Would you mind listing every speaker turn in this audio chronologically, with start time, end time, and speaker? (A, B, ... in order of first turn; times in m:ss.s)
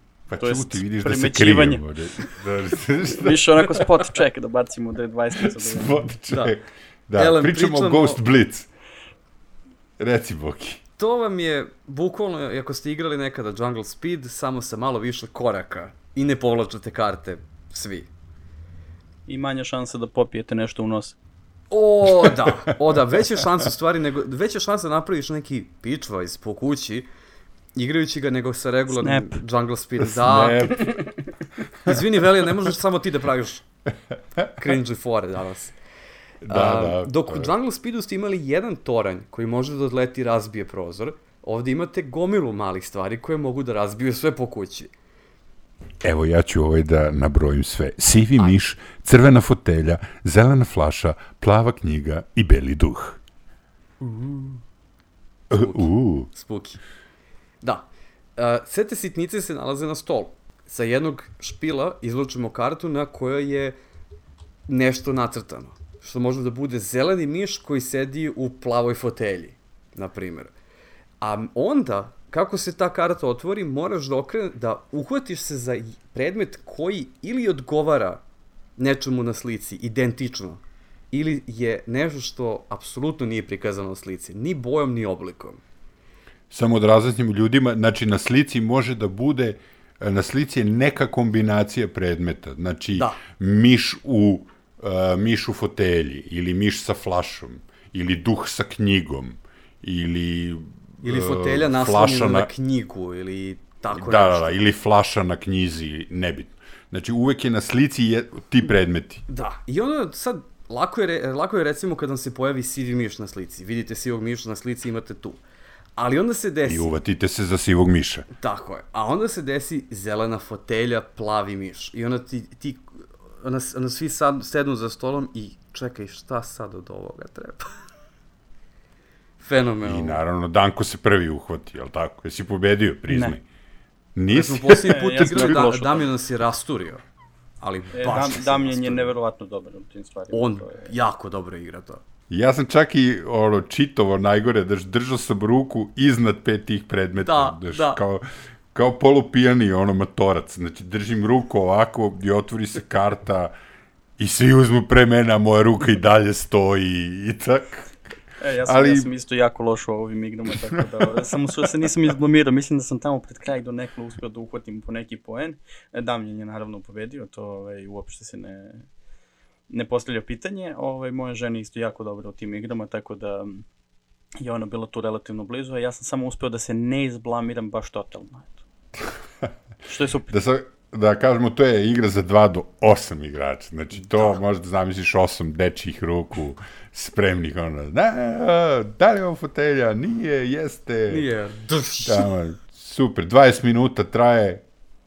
0:00.3-0:03.8 A
0:00.4-0:01.8 B
0:03.1-0:06.0 B
0:05.4-0:08.7 A
0:06.3-0:06.5 C
0:07.2-0:08.2 C
0:10.0-0:10.8 A
0:11.0-0:18.1 C
0:19.3-0:21.2 B
0:21.7-0:27.1 C
0:22.2-0:22.7 A
0:27.7-0:30.9 C
0:29.0-0:29.4 B
0:30.0-0:31.1 A
0:31.8-0:33.6 C
0:34.6-0:35.8 C
0:36.4-0:37.5 A
0:36.5-0:44.9 C
0:46.0-0:53.2 A
0:54.0-0:54.6 C
0:55.5-0:56.3 A
0:55.6-0:56.8 C
0:57.6-1:03.7 C
1:04.7-1:10.5 C
1:11.2-1:18.2 C
1:18.8-1:25.6 C
1:26.5-1:42.5 A
1:32.9-1:33.2 C
1:41.0-1:44.6 C
1:43.9-1:49.2 A
1:49.3-1:55.4 C
1:56.0-1:56.8 C
1:56.6-1:58.3 A
1:58.4-2:02.8 C
2:03.4-2:07.8 C
2:09.4-2:10.2 C
2:09.8-2:13.4 A
2:13.1-2:13.4 B
2:14.1-2:15.7 A
2:14.3-2:17.0 C
2:14.8-2:16.1 B
2:17.6-2:19.1 C
2:17.9-2:20.9 B
2:20.3-2:22.0 C
2:22.3-2:33.5 A
2:27.2-2:28.0 C
2:34.2-2:37.9 A
2:38.4-2:48.9 B
2:38.6-2:39.1 A
2:49.7-2:53.6 B
2:54.4-2:58.6 B
2:59.8-3:00.3 B
3:00.3-3:11.2 A
3:11.1-3:12.3 C
3:12.0-3:14.6 A